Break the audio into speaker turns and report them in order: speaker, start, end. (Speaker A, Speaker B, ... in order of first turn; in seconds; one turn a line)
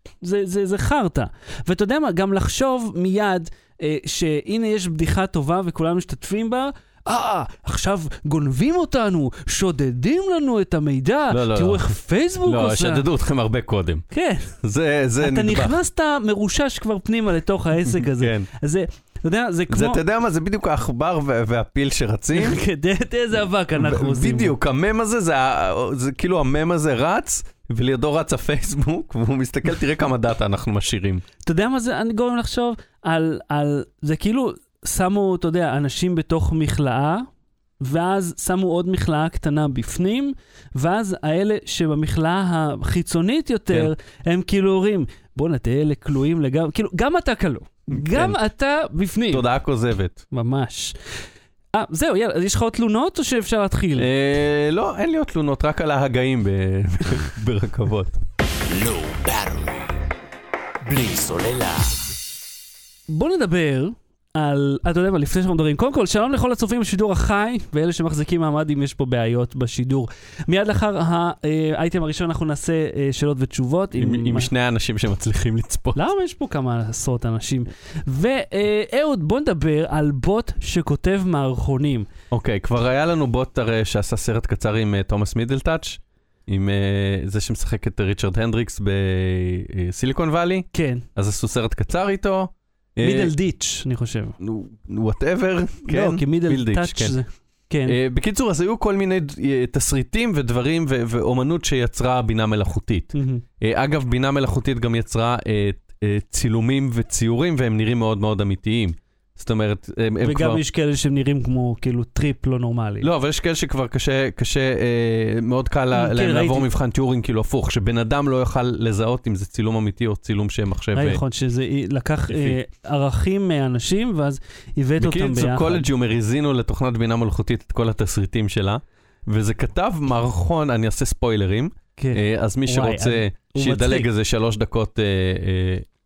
Speaker A: 0.2-13.1
Speaker B: 11.3-11.9
Speaker B: 12.4-14.0
Speaker A: 14.1-14.6
Speaker B: 14.6-15.8
Speaker A: 15.2-20.0
Speaker B: 17.9-18.5
Speaker B: 19.7-22.6
Speaker A: 22.3-24.5
Speaker B: 23.8-31.2
Speaker A: 31.4-37.3
Speaker A: 37.8-49.5
Speaker B: 47.9-48.4
Speaker B: 49.3-50.2
Speaker A: 50.3-50.9
Speaker A: 51.7-54.1
Speaker B: 54.0-58.1
Speaker C: 58.5-59.9
Speaker C: 60.8-62.0
Speaker A: 63.1-74.5
Speaker B: 74.0-76.0
Speaker A: 76.0-82.1
Speaker B: 82.3-93.3
Speaker A: 90.7-91.0
Speaker A: 93.0-94.3
Speaker B: 94.4-97.1
Speaker A: 95.8-98.0
Speaker B: 97.8-110.6
Speaker A: 103.1-103.4
Speaker A: 110.2-113.1
Speaker B: 113.0-121.2
Speaker A: 115.9-116.7
Speaker A: 120.9-125.9
Speaker B: 122.3-122.6
Speaker B: 125.0-135.8
Speaker A: 131.9-134.1